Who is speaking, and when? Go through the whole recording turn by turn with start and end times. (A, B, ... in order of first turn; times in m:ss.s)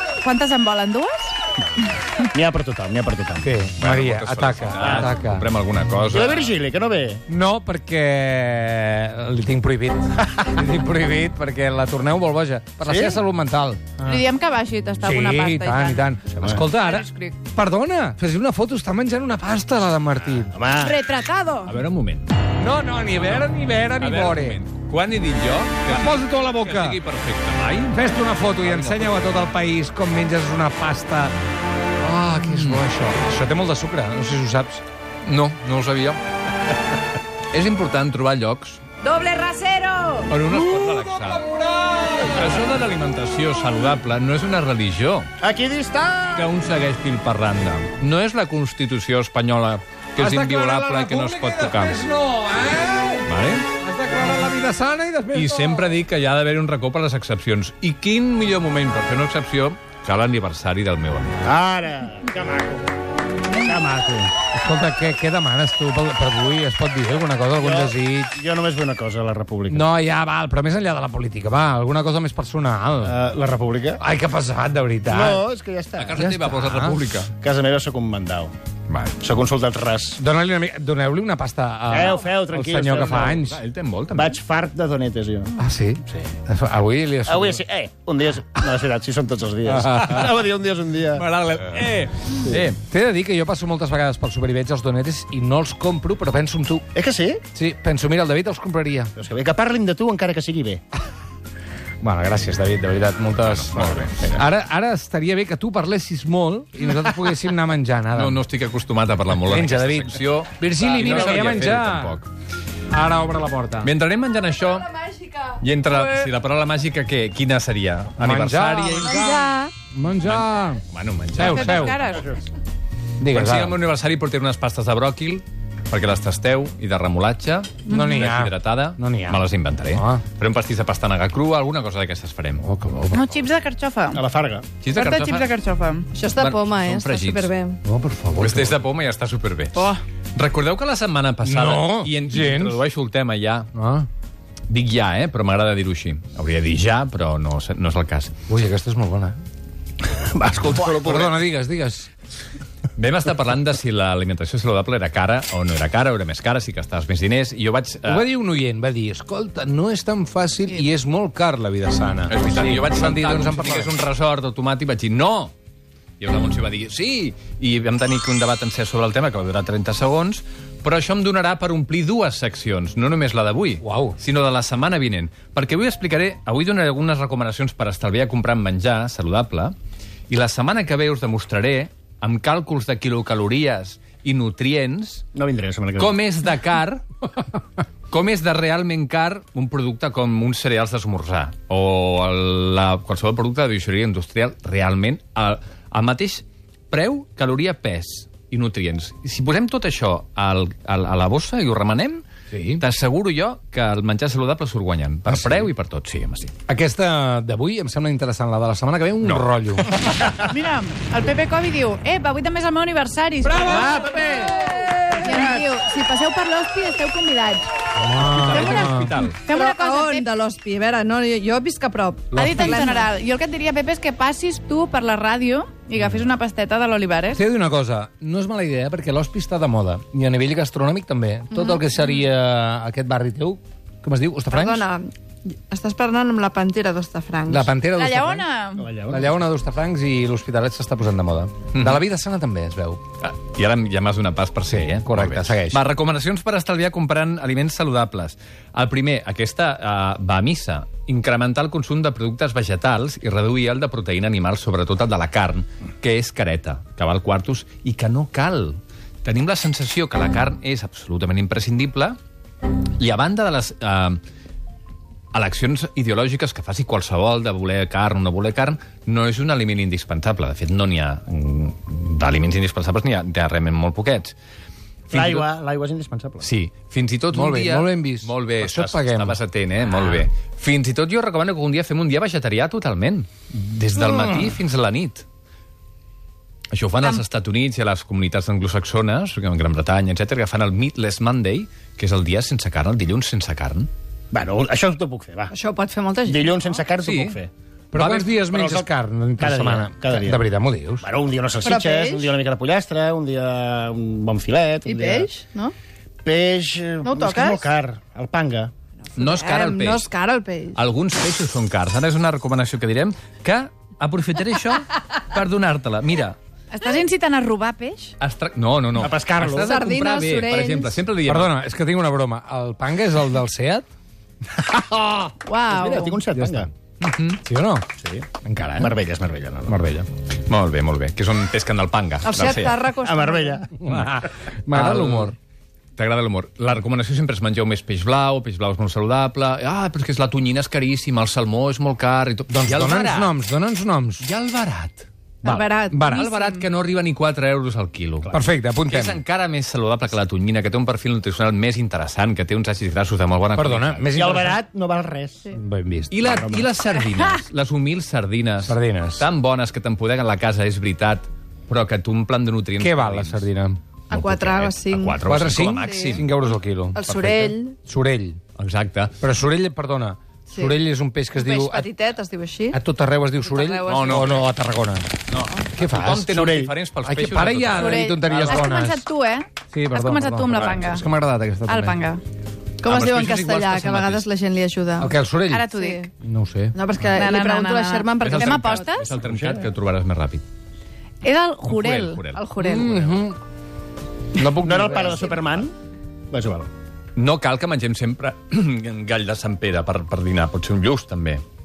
0:00.2-0:01.4 A
0:02.3-0:03.5 B
0:03.4-0:05.5 C
0:03.8-0:06.5 D
0:04.8-0:05.1 B
0:06.1-0:07.2 B
0:07.3-0:14.1 C
0:12.8-0:13.2 B
0:14.0-0:16.0 A
0:15.0-0:20.5 C
0:16.3-0:16.6 B
0:16.7-0:17.4 A
0:20.5-0:21.0 B
0:20.8-0:21.7 A
0:21.7-0:22.3 D
0:22.6-0:24.6 C
0:23.2-0:23.5 D
0:24.0-0:29.2 D
0:25.9-0:27.0 C
0:27.9-0:31.3 C
0:32.0-0:34.8 C
0:32.4-0:32.8 D
0:35.2-0:36.2 D
0:35.3-0:35.9 C
0:37.5-0:38.8 D
0:39.0-0:40.3 A
0:40.3-0:41.5 D
0:40.5-0:42.6 C
0:42.3-0:45.3 D
0:45.4-0:46.5 B
0:46.4-0:52.0 D
0:50.2-0:56.0 C
0:53.3-0:53.7 D
0:55.3-1:01.4 D
1:01.4-1:02.9 B
1:03.5-1:04.3 B
1:04.5-1:08.4 C
1:07.6-1:09.8 B
1:09.7-1:13.2 C
1:13.0-1:14.0 B
1:14.0-1:15.4 C
1:15.1-1:16.2 B
1:16.0-1:17.3 D
1:16.2-1:17.0 C
1:17.3-1:18.5 B
1:18.9-1:19.2 D
1:19.2-1:20.2 B
1:20.2-1:23.6 C
1:21.9-1:23.5 B
1:23.3-1:24.4 D
1:24.1-1:25.6 B
1:25.6-1:27.6 C
1:27.3-1:31.3 B
1:29.7-1:30.3 C
1:31.2-1:32.8 D
1:32.7-1:36.8 C
1:36.9-1:37.4 B
1:37.6-1:39.1 C
1:39.2-1:40.8 B
1:42.0-1:48.4 C
1:43.4-1:44.1 D
1:44.1-1:44.4 B
1:48.1-1:52.3 D
1:49.4-1:52.2 C
1:51.2-1:51.6 A
1:52.9-1:53.9 C
1:53.8-1:55.0 D
1:55.5-1:59.3 D
1:58.2-2:00.8 C
1:59.0-1:59.7 E
2:00.2-2:02.0 D
2:01.4-2:02.0 C
2:01.4-2:02.3 A
2:03.2-2:03.8 C
2:03.3-2:12.6 D
2:07.9-2:08.3 A
2:07.9-2:10.2 C
2:12.6-2:13.2 C
2:13.1-2:14.2 A
2:14.1-2:14.7 B
2:14.8-2:15.5 D
2:14.9-2:16.1 A
2:16.1-2:17.8 E
2:16.3-2:17.5 D
2:17.8-2:18.8 C
2:18.4-2:23.7 D
2:19.7-2:20.0 A
2:21.4-2:22.8 C
2:23.7-2:24.1 C
2:24.7-2:28.3 D
2:28.5-2:29.4 C
2:30.0-2:31.4 B
2:30.7-2:32.1 C
2:33.0-2:38.3 D
2:38.0-2:43.9 C
2:42.3-2:45.5 D
2:46.2-2:59.8 D
2:53.8-2:54.2 C
3:00.3-3:05.3 D
3:05.4-3:06.2 B
3:06.0-3:07.0 D
3:08.1-3:22.2 D
3:22.5-3:22.8 C
3:22.8-3:26.5 D
3:25.3-3:25.7 C
3:26.7-3:30.0 C
3:29.2-3:29.5 D
3:30.2-3:34.7 A
3:33.5-3:34.0 C
3:33.6-3:34.6 B
3:35.2-3:36.0 E
3:35.3-3:37.7 A
3:38.0-3:39.1 C
3:38.3-3:40.3 A
3:38.4-3:39.4 D
3:39.5-3:43.1 E
3:42.3-3:42.9 C
3:42.3-3:47.4 A
3:47.3-3:54.8 C
3:51.5-3:51.8 E
3:54.5-3:57.7 E
3:57.5-3:58.5 C
3:57.9-3:58.9 A
3:58.8-3:59.4 B
3:59.1-4:03.0 C
4:01.7-4:02.0 D
4:03.2-4:22.2 D
4:04.7-4:05.8 C
4:23.0-4:24.2 D
4:25.3-4:34.4 D
4:35.1-4:35.5 D
4:35.1-4:36.5 B
4:36.4-4:45.3 D
4:37.3-4:39.4 C
4:44.0-4:44.5 C
4:46.7-4:53.9 D
4:54.3-4:55.5 B
4:55.5-4:56.6 E
4:56.3-4:57.5 B
4:57.0-4:57.4 D
4:57.9-5:01.1 C
4:57.9-4:58.4 D
4:58.4-5:00.4 B
5:01.0-5:05.3 B
5:01.6-5:02.4 E
5:04.9-5:05.7 E
5:06.2-5:08.7 B
5:07.0-5:07.6 E
5:09.2-5:10.1 D
5:09.2-5:10.8 E
5:10.8-5:16.4 D
5:16.7-5:18.1 A
5:18.2-5:21.5 D
5:19.0-5:19.7 B
5:19.6-5:21.0 E
5:21.3-5:23.8 C
5:24.6-5:26.7 B
5:25.4-5:26.2 A
5:26.4-5:26.7 C
5:27.0-5:27.4 D
5:27.4-5:27.9 C
5:28.0-5:28.3 B
5:28.4-5:28.9 C
5:28.8-5:29.8 B
5:30.5-5:32.8 D
5:32.2-5:33.6 E
5:33.0-5:33.9 B
5:33.8-5:35.4 C
5:34.7-5:35.4 D
5:36.0-5:43.4 D
5:42.5-5:44.3 C
5:44.2-5:45.1 D
5:45.4-5:46.6 E
5:45.4-5:46.3 C
5:46.0-5:46.5 A
5:46.1-5:48.3 D
5:48.3-5:49.2 C
5:48.9-5:54.0 D
5:53.6-5:54.6 C
5:54.1-5:55.5 B
5:55.5-5:56.1 C
5:56.1-6:03.5 D
5:56.2-5:56.7 B
5:58.6-5:59.3 C
6:02.8-6:03.8 C
6:04.1-6:06.3 D
6:04.1-6:06.3 E
6:05.2-6:08.4 C
6:06.9-6:07.8 E
6:08.6-6:09.2 D
6:09.2-6:11.9 C
6:10.5-6:10.8 E
6:11.4-6:12.8 E
6:12.7-6:15.1 C
6:13.4-6:14.5 E
6:13.9-6:14.5 D
6:15.3-6:18.5 D
6:15.8-6:16.3 C
6:16.3-6:16.8 B
6:17.0-6:19.0 C
6:17.7-6:21.0 A
6:19.7-6:22.0 C
6:21.7-6:22.2 A
6:22.8-6:25.1 E
6:22.8-6:24.3 D
6:25.0-6:25.7 C
6:25.5-6:26.1 A
6:25.7-6:26.1 E
6:26.2-6:26.8 C
6:26.7-6:28.9 E
6:27.1-6:29.1 A
6:28.2-6:30.4 D
6:29.1-6:29.7 B
6:31.2-6:32.3 A
6:31.6-6:32.4 D
6:32.3-6:33.2 E
6:32.6-6:33.4 C
6:34.4-6:35.4 C
6:34.6-6:35.7 B
6:36.3-6:36.7 B
6:37.2-6:41.4 D